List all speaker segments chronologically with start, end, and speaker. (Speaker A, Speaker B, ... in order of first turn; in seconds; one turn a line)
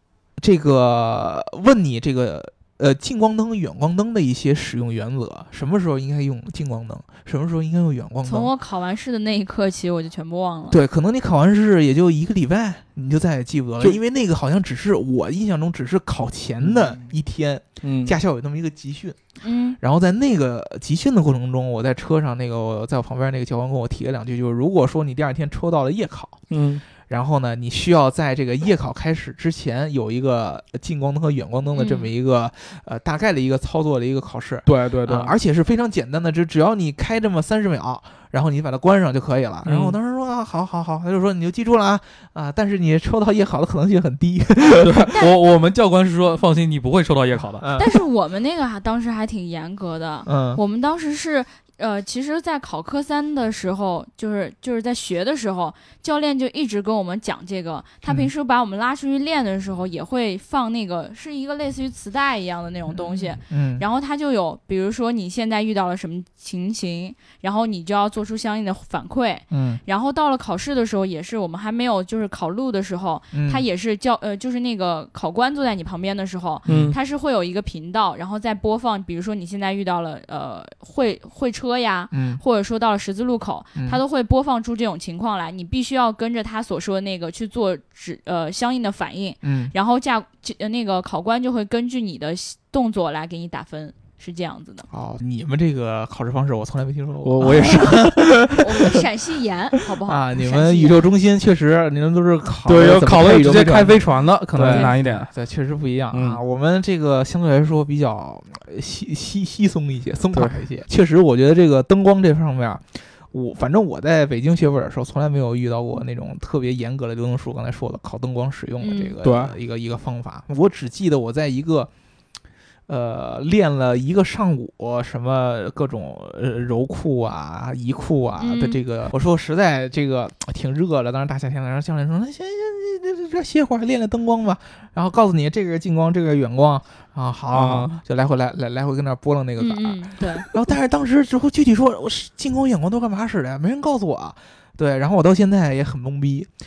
Speaker A: 0.4-8.5
Speaker B: 8.2-10.8
Speaker A: 10.7-19.2
Speaker C: 16.7-16.9
Speaker C: 17.8-18.1
Speaker B: 19.4-19.8
Speaker A: 19.8-26.4
Speaker C: 26.5-26.8
Speaker A: 27.1-45.1
Speaker B: 31.8-32.1
Speaker C: 34.7-35.4
Speaker C: 39.6-40.0
Speaker C: 44.8-47.6
Speaker A: 47.6-48.0
Speaker B: 47.8-94.9
Speaker A: 50.3-50.6
Speaker A: 58.0-58.3
Speaker A: 62.9-63.8
Speaker A: 69.5-69.8
Speaker A: 73.3-73.6
Speaker A: 76.7-77.0
Speaker C: 76.7-77.0
Speaker A: 82.1-82.4
Speaker A: 89.4-89.7
Speaker A: 94.9-99.0
Speaker C: 97.2-98.3
Speaker B: 98.6-101.0
Speaker A: 100.0-121.9
Speaker C: 102.7-105.3
Speaker B: 104.7-105.0
Speaker C: 106.1-106.4
Speaker C: 110.3-110.6
Speaker B: 118.8-119.1
Speaker C: 119.2-119.6
Speaker A: 122.9-146.5
Speaker B: 128.4-128.8
Speaker C: 137.5-138.0
Speaker B: 139.6-140.5